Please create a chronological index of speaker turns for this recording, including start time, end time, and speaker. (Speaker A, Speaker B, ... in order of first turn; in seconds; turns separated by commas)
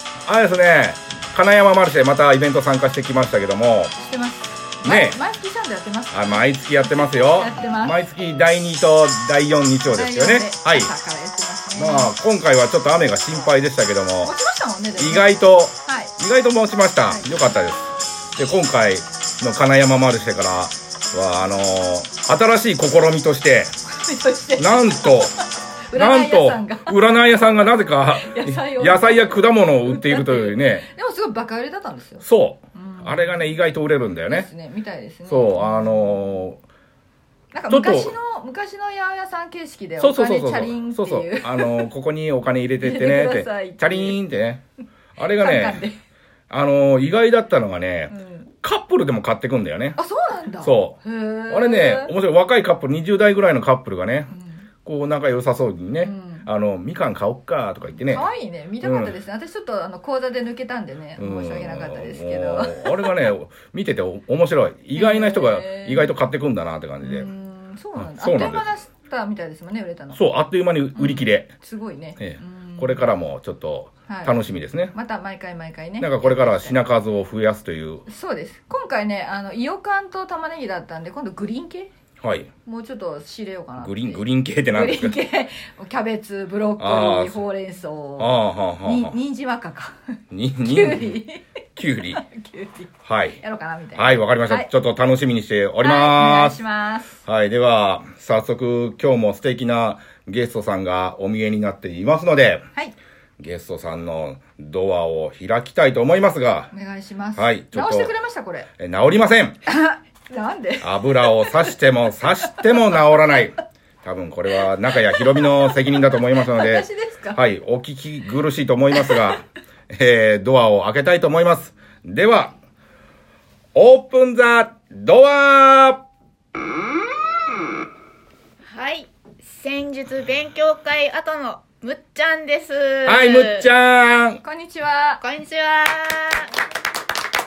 Speaker A: 0.2-3.9, Speaker B: 4.0-6.4, Speaker A: 4.8-5.2, Speaker A: 6.1-10.9, Speaker B: 7.2-7.9, Speaker B: 9.9-12.1, Speaker A: 11.7-14.3, Speaker B: 14.2-16.1, Speaker A: 14.9-23.7, Speaker B: 24.0-27.0, Speaker A: 24.6-25.4, Speaker A: 25.9-30.9, Speaker B: 28.1-33.4, Speaker A: 32.2-34.5, Speaker B: 34.3-36.2, Speaker A: 35.2-36.6, Speaker B: 37.5-41.9, Speaker A: 37.7-38.2, Speaker A: 40.0-44.6, Speaker B: 42.8-44.2, Speaker A: 45.1-45.8, Speaker B: 45.4-46.0, Speaker A: 46.5-50.0, Speaker B: 48.1-48.5, Speaker B: 50.0-52.1, Speaker A: 50.6-54.3, Speaker B: 54.3-54.6, Speaker A: 54.8-58.3, Speaker B: 56.0-56.5, Speaker B: 58.0-63.2, Speaker A: 58.8-59.1, Speaker A: 61.2-67.3, Speaker B: 64.9-66.1, Speaker B: 67.0-70.2, Speaker A: 67.9-68.7, Speaker A: 70.1-71.5, Speaker B: 70.9-73.1, Speaker A: 72.2-74.9, Speaker B: 74.1-74.3, Speaker B: 74.9-76.8, Speaker A: 76.0-78.1, Speaker B: 78.1-81.9, Speaker A: 82.2-82.5, Speaker B: 82.6-91.4, Speaker A: 83.8-85.2, Speaker A: 86.8-87.4, Speaker A: 88.2-89.2, Speaker A: 90.3-91.2, Speaker A: 91.8-92.2, Speaker B: 92.1-94.7, Speaker A: 93.0-93.4, Speaker A: 94.0-96.6, Speaker B: 95.8-97.2, Speaker A: 97.2-102.6, Speaker A: 103.4-106.7, Speaker B: 106.7-108.7, Speaker A: 107.3-108.1, Speaker A: 108.8-109.6, Speaker B: 109.7-111.7, Speaker A: 110.8-122.5, Speaker B: 116.4-117.4, Speaker A: 123.7-126.0, Speaker C: 128.7-133.7, Speaker A: 133.1-134.4, Speaker B: 134.4-135.2, Speaker C: 135.2-136.5